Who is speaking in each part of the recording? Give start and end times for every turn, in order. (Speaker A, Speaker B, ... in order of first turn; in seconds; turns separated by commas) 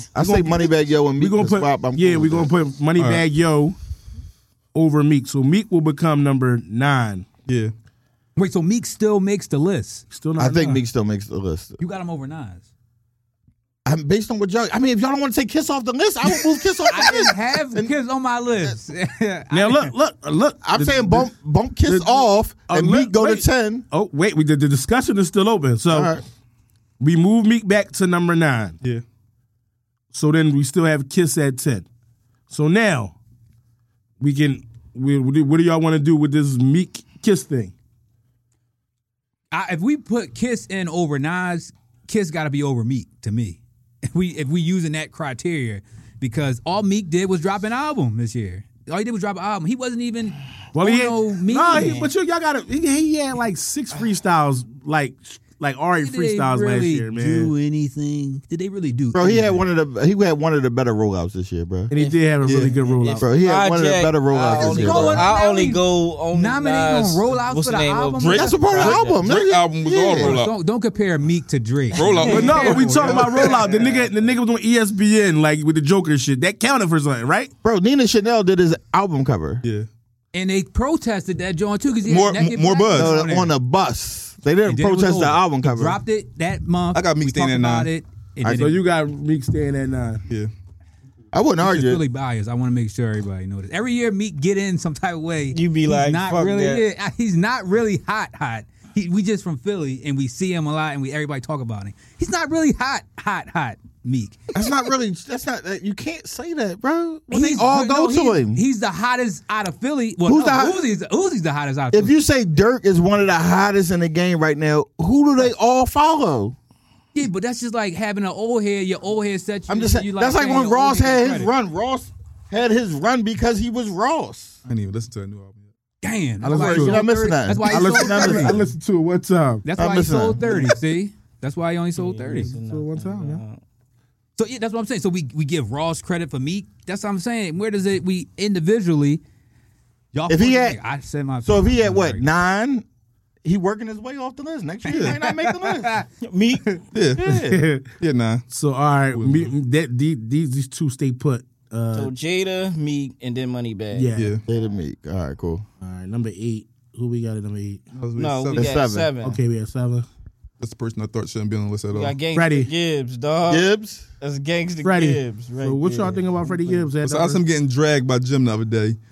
Speaker A: 0.1-2.5, Speaker B: 0.1-3.8, Speaker C: 3.0-3.2, Speaker B: 4.7-7.3, Speaker C: 7.5-7.7, Speaker D: 8.4-10.0, Speaker B: 10.1-10.8, Speaker A: 10.4-11.8, Speaker D: 11.8-12.7, Speaker A: 13.8-17.9, Speaker D: 16.3-19.9, Speaker B: 19.5-21.3, Speaker A: 20.6-23.9, Speaker B: 21.9-26.1, Speaker A: 25.9-26.2, Speaker B: 27.0-28.8, Speaker B: 30.1-31.9, Speaker B: 32.5-33.1, Speaker B: 34.2-37.7, Speaker D: 39.5-52.1, Speaker B: 50.7-57.5, Speaker E: 51.7-52.0, Speaker D: 56.0-59.6, Speaker A: 59.1-61.9, Speaker B: 61.9-63.3, Speaker E: 62.0-69.2, Speaker C: 62.4-62.7, Speaker A: 63.2-65.3, Speaker D: 64.5-69.0, Speaker C: 68.2-70.5, Speaker A: 68.3-70.4, Speaker D: 70.1-73.6, Speaker C: 71.9-73.8, Speaker B: 72.2-77.5, Speaker A: 77.6-79.6, Speaker D: 80.3-83.5, Speaker C: 82.0-83.1, Speaker A: 82.9-86.0, Speaker D: 84.7-88.8, Speaker C: 86.9-87.9, Speaker B: 88.5-90.2, Speaker A: 91.3-92.0, Speaker D: 91.6-104.4, Speaker E: 95.5-96.8, Speaker A: 104.5-108.6, Speaker D: 107.3-112.2, Speaker A: 110.3-110.8, Speaker A: 111.9-116.5, Speaker D: 117.1-121.5, Speaker A: 119.7-124.6, Speaker C: 124.7-125.6, Speaker D: 126.0-128.6, Speaker B: 126.4-127.1, Speaker A: 126.4-128.7, Speaker B: 127.7-129.7, Speaker D: 129.7-132.5, Speaker A: 129.8-130.8, Speaker E: 132.0-133.6, Speaker B: 132.4-133.4, Speaker D: 134.4-139.2, Speaker D: 140.1-142.3, Speaker A: 140.3-140.8, Speaker A: 141.4-142.8, Speaker A: 143.4-146.0, Speaker C: 144.9-145.2, Speaker D: 144.9-146.1, Speaker E: 146.2-146.8, Speaker C: 146.9-147.4, Speaker A: 147.2-147.6, Speaker B: 147.2-147.9, Speaker C: 148.0-148.4, Speaker B: 148.5-152.1, Speaker C: 149.1-149.5, Speaker E: 151.9-154.1, Speaker B: 153.9-154.3, Speaker C: 154.2-154.4, Speaker A: 154.5-155.7, Speaker B: 155.8-157.8, Speaker C: 158.0-158.7, Speaker E: 158.2-159.4, Speaker A: 158.6-159.1, Speaker B: 159.2-160.1, Speaker C: 160.6-162.2, Speaker E: 161.9-166.9, Speaker B: 162.3-162.7, Speaker A: 163.5-164.0, Speaker B: 164.8-167.4, Speaker C: 167.0-169.0